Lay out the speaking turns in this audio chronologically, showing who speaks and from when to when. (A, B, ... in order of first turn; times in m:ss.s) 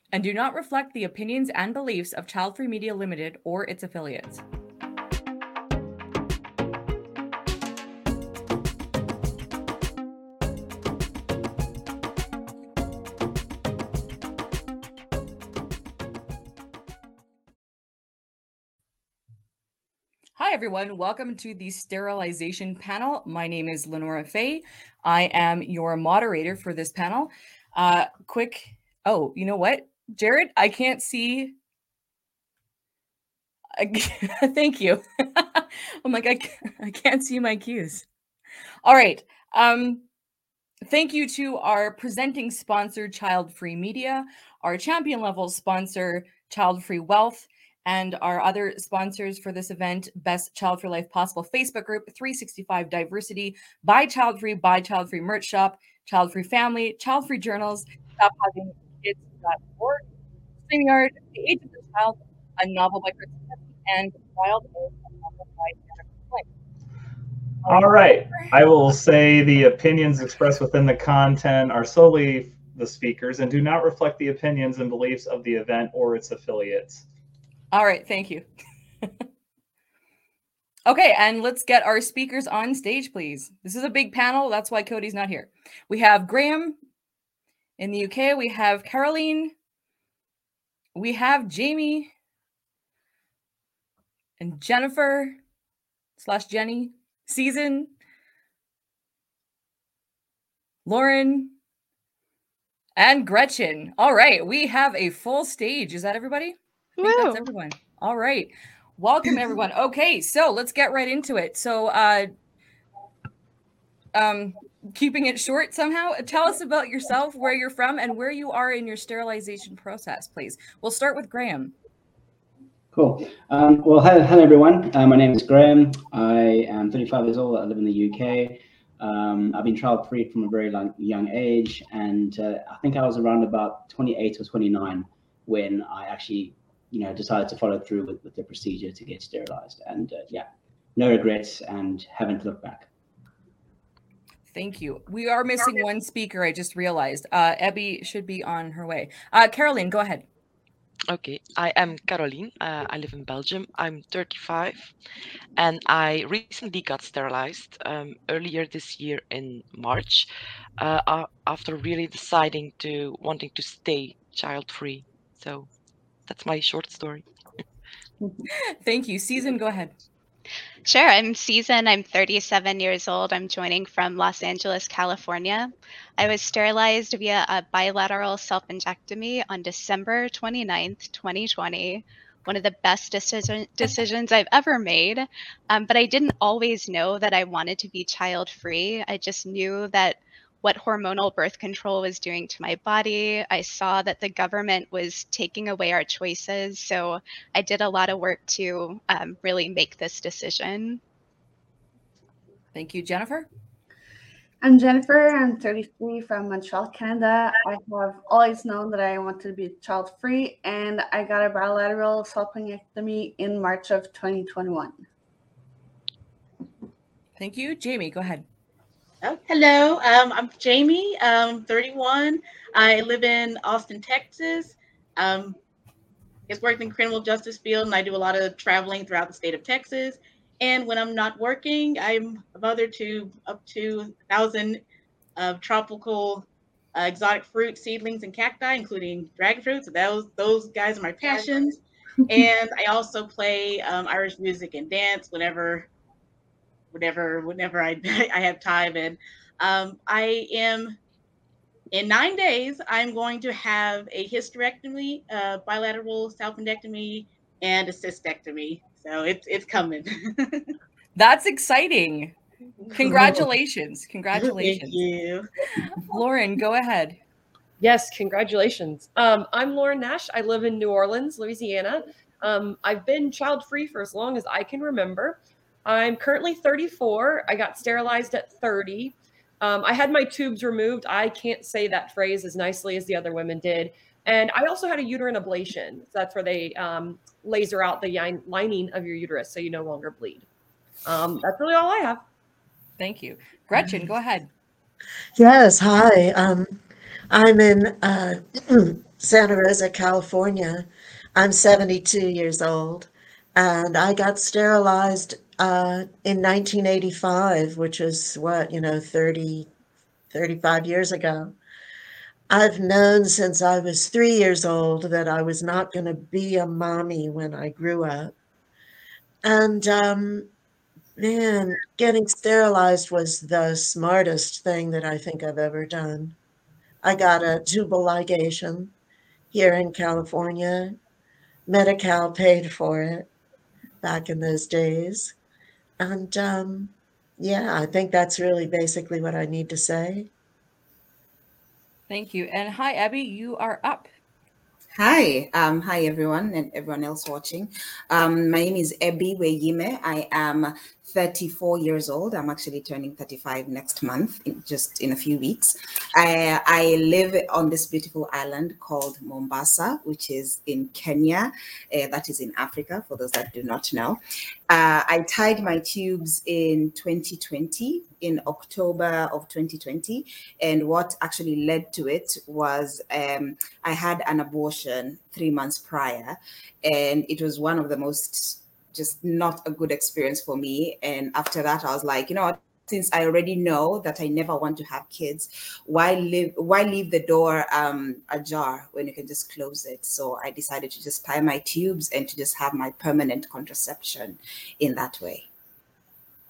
0:00.1-0:04.4 A
0:20.4-0:31.5 A
0:33.8-0:38.0 A
0:38.8-0:40.0 A
0:40.8-1:00.0 A
1:00.7-1:06.4 A
1:07.6-1:17.0 B
1:17.7-1:18.4 A
1:20.9-1:26.8 A
1:27.8-1:29.5 A
1:30.9-1:32.1 A
1:34.4-1:35.4 A
1:36.2-1:37.9 A
1:40.8-1:41.5 A
1:43.0-1:52.3 A
1:47.0-1:47.4 C
1:54.1-2:01.7 A
2:02.9-2:22.9 D
2:24.5-2:30.2 A
2:31.1-2:34.9 E
2:35.6-2:40.3 E
2:40.8-2:45.7 E
2:46.3-2:47.2 E
2:48.8-2:49.9 A
2:50.8-3:21.0 C
3:22.7-3:23.5 A
3:24.6-3:35.0 F
3:37.4-3:38.4 A
3:39.2-3:45.6 G
3:46.5-3:54.8 G
3:55.4-4:05.9 G
4:06.9-4:11.0 G
4:11.9-4:20.7 G
4:21.2-4:22.3 A
4:22.9-4:25.0 A
4:23.0-4:23.4 G
4:24.4-4:25.5 G
4:25.8-4:27.2 A
4:27.8-4:50.5 H
4:51.0-4:52.2 H
4:53.0-4:54.5 A
4:55.4-4:56.8 I
4:57.3-5:09.7 I
5:10.3-5:11.5 I
5:12.5-5:18.3 I
5:19.4-5:20.5 I
5:21.2-5:26.4 I
5:27.0-5:28.9 I
5:29.5-5:31.0 I
5:31.7-5:33.3 I
5:34.0-5:35.3 I
5:36.0-5:40.3 I
5:42.1-5:44.1 A
5:45.0-6:35.5 J